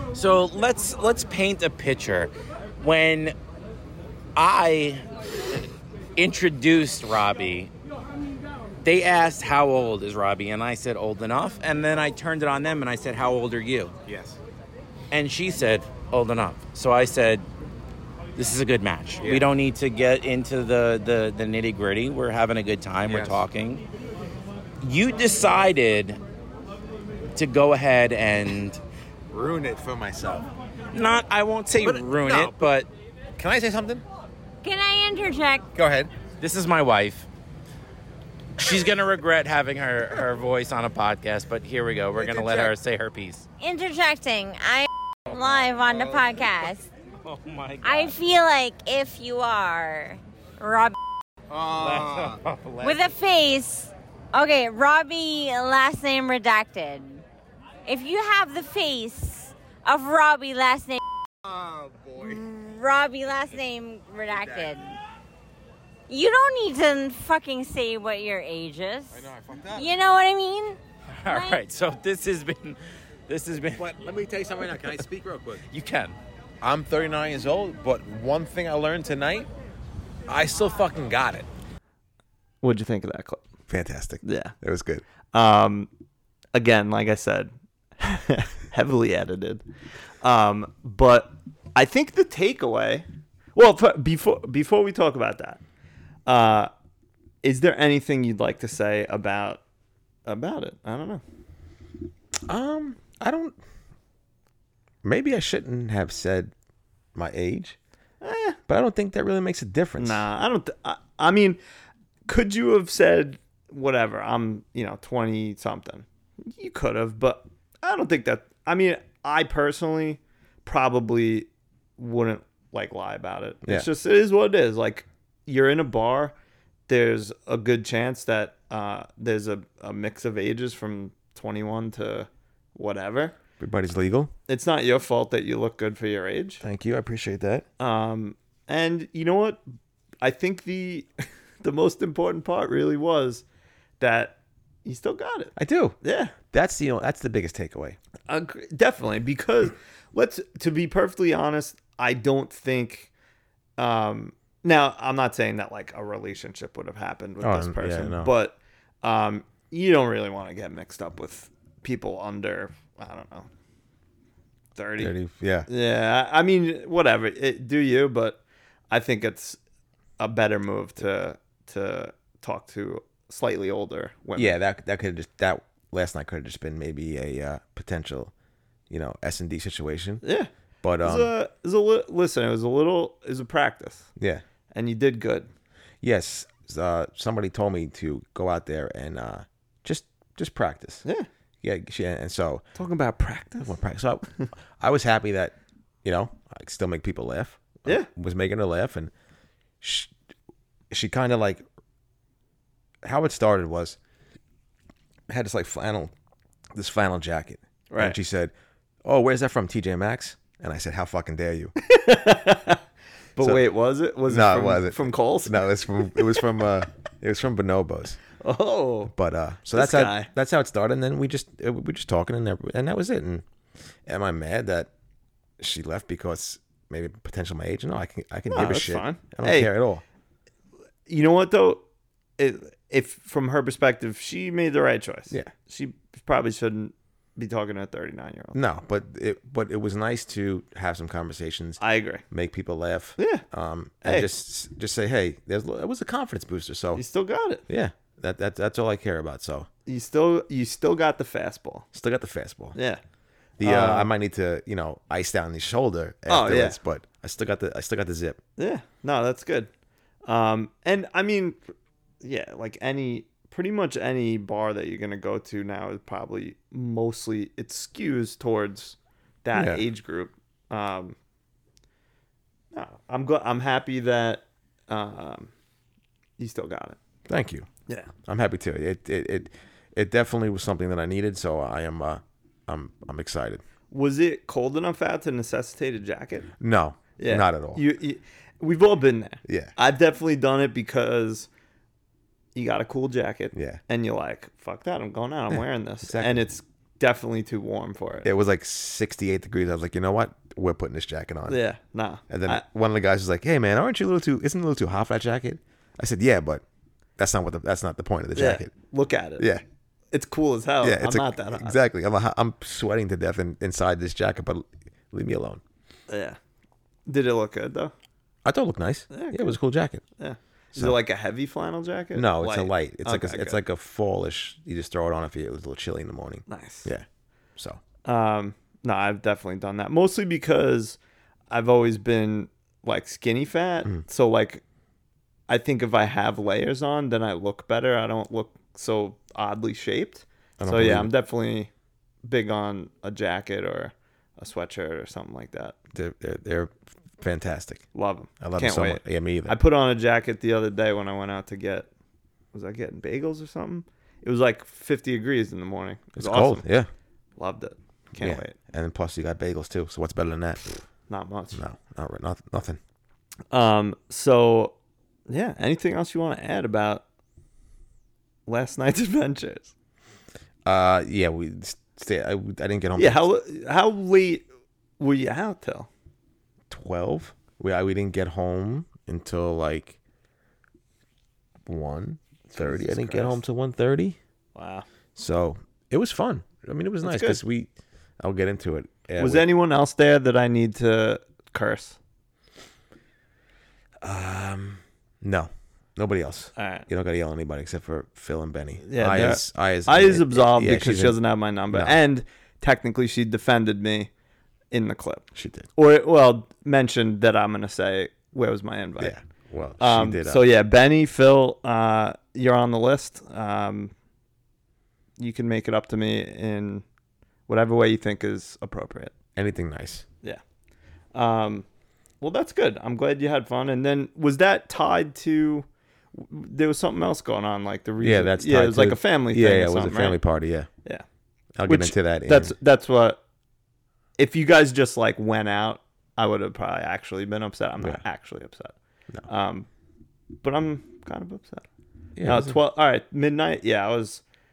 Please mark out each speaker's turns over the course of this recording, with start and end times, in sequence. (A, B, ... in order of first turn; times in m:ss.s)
0:00.1-0:03.3 A
0:04.4-0:05.0 A
0:06.2-0:07.7 A
0:08.8-0:13.9 A
0:14.1-0:14.3 B
0:15.1-0:17.4 A
0:18.4-0:23.8 A
0:23.1-0:23.4 C
0:24.8-0:26.2 A
0:27.3-0:28.8 A
0:29.3-0:30.4 C
0:30.9-0:32.9 A
0:31.8-0:32.6 B
0:33.4-0:34.0 C
0:34.6-0:35.7 D
0:35.7-0:36.1 C
0:36.4-0:37.2 A
0:38.6-0:43.4 A
0:42.2-0:42.7 C
0:43.6-0:46.9 D
0:47.2-0:48.2 A
0:47.8-0:51.0 D
0:51.5-0:52.4 B
0:51.8-0:53.1 A
0:52.8-0:57.2 D
0:57.8-1:01.0 D
1:01.5-1:02.4 B
1:02.2-1:05.0 D
1:06.1-1:11.6 D
1:09.2-1:09.8 B
1:09.2-1:09.8 C
1:11.1-1:13.9 A
1:13.8-1:15.6 C
1:15.7-1:16.2 A
1:16.6-1:19.5 C
1:20.3-1:21.4 C
1:20.4-1:20.9 B
1:22.6-1:23.4 E
1:23.7-1:25.0 C
1:24.2-1:24.5 E
1:25.3-1:25.9 E
1:26.5-1:29.6 E
1:30.2-1:35.6 E
1:36.2-1:36.7 E
1:37.4-1:39.6 E
1:40.2-1:41.2 E
1:42.5-1:43.6 C
1:45.0-1:46.5 C
1:47.1-1:47.8 C
1:48.2-1:48.6 E
1:48.7-1:50.2 C
1:50.0-1:51.6 E
1:52.2-2:06.3 E
2:06.9-2:13.3 E
2:13.6-2:14.3 C
2:14.5-2:16.6 E
2:16.6-2:17.6 C
2:17.8-2:19.6 E
2:20.2-2:21.1 E
2:21.6-2:23.4 E
2:24.0-2:26.3 E
2:25.6-2:28.0 C
2:28.3-2:33.1 E
2:33.8-2:43.5 E
2:37.4-2:38.3 C
2:44.8-2:45.1 E
2:45.0-2:45.7 C
2:45.7-2:49.6 E
2:50.2-2:54.6 E
2:54.4-2:58.3 C
2:58.9-3:00.2 C
3:00.2-3:00.5 E
3:00.8-3:01.3 C
3:01.0-3:04.1 E
3:04.2-3:04.4 C
3:04.7-3:05.5 E
3:06.0-3:11.0 C
3:11.6-3:12.6 C
3:12.7-3:13.7 E
3:13.6-3:19.1 C
3:19.8-3:20.1 C
3:20.9-3:21.6 C
3:23.0-3:24.0 C
3:25.3-3:26.1 C
3:26.7-3:28.5 C
3:27.9-3:28.2 E
3:29.0-3:31.7 C
3:31.8-3:32.8 E
3:33.4-3:36.5 E
3:34.3-3:38.2 C
3:38.4-3:39.1 E
3:39.1-3:43.4 C
3:39.7-3:40.3 E
3:44.0-3:44.9 C
3:45.6-3:50.0 C
3:48.5-3:49.7 E
3:51.1-3:51.8 E
3:52.4-3:58.6 E
3:58.5-4:07.0 C
4:01.8-4:02.2 E
4:03.2-4:03.4 E
4:04.0-4:04.3 E
4:06.9-4:07.6 E
4:07.7-4:09.7 C
4:09.8-4:11.9 E
4:11.9-4:12.8 C
4:12.7-4:13.0 E
4:13.6-4:18.4 C
4:13.6-4:14.1 E
4:16.3-4:16.8 E
4:18.6-4:19.7 E
4:20.2-4:21.6 E
4:22.2-4:31.2 E
4:29.5-4:29.8 C
4:32.7-4:35.5 E
4:36.4-4:37.0 E
4:37.3-4:37.7 C
4:38.3-4:43.6 C
4:43.9-4:46.5 E
4:46.6-4:47.8 C
4:47.2-4:51.5 E
4:49.4-4:49.7 C
4:52.5-4:58.3 E
4:53.5-4:53.8 C
4:55.5-4:56.4 C
4:58.2-5:01.6 C
5:01.5-5:02.6 E
5:02.3-5:06.6 C
5:07.2-5:08.7 C
5:08.3-5:09.5 E
5:09.4-5:09.6 C
5:10.1-5:11.8 E
5:10.8-5:15.6 C
5:16.1-5:16.4 E
5:17.0-5:17.9 E
5:18.4-5:20.0 C
5:19.1-5:19.6 E
5:20.2-5:23.6 E
5:22.1-5:27.0 C
5:26.5-5:26.9 E
5:28.0-5:31.0 E
5:31.5-5:34.6 E
5:35.5-5:41.7 E
5:40.6-5:41.1 C
5:42.2-5:45.8 E
5:45.9-5:47.8 C
5:47.9-5:51.9 E
5:48.4-5:49.6 C
5:52.5-5:56.6 E
5:56.2-5:56.9 C
5:57.4-5:58.5 E
5:58.2-6:00.8 C
6:01.1-6:01.6 E
6:01.5-6:02.8 C
6:03.5-6:04.7 E
6:05.3-6:07.0 E
6:08.5-6:09.7 E
6:10.6-6:13.2 C
6:13.0-6:14.4 E
6:15.0-6:15.9 E
6:16.7-6:20.0 C
6:21.6-6:24.2 C
6:22.5-6:23.4 E
6:24.5-6:24.8 E
6:25.1-6:29.5 C
6:27.0-6:27.4 E
6:29.2-6:32.0 E
6:34.0-6:41.2 C
6:36.6-6:36.9 E
6:38.8-6:44.1 E
6:41.7-6:42.0 C
6:44.7-6:49.2 E
6:45.3-6:45.7 C
6:49.0-6:50.4 C
6:49.8-6:53.9 E
6:55.2-6:56.8 E
6:57.5-6:59.1 E
6:59.4-7:00.0 C
7:01.1-7:01.6 E
7:02.2-7:10.2 E
7:08.0-7:10.7 C
7:11.6-7:12.5 C
7:11.7-7:13.2 E
7:14.2-7:18.7 E
7:19.3-7:19.7 E
7:20.4-7:21.6 E
7:22.2-7:22.6 C
7:22.2-7:24.2 E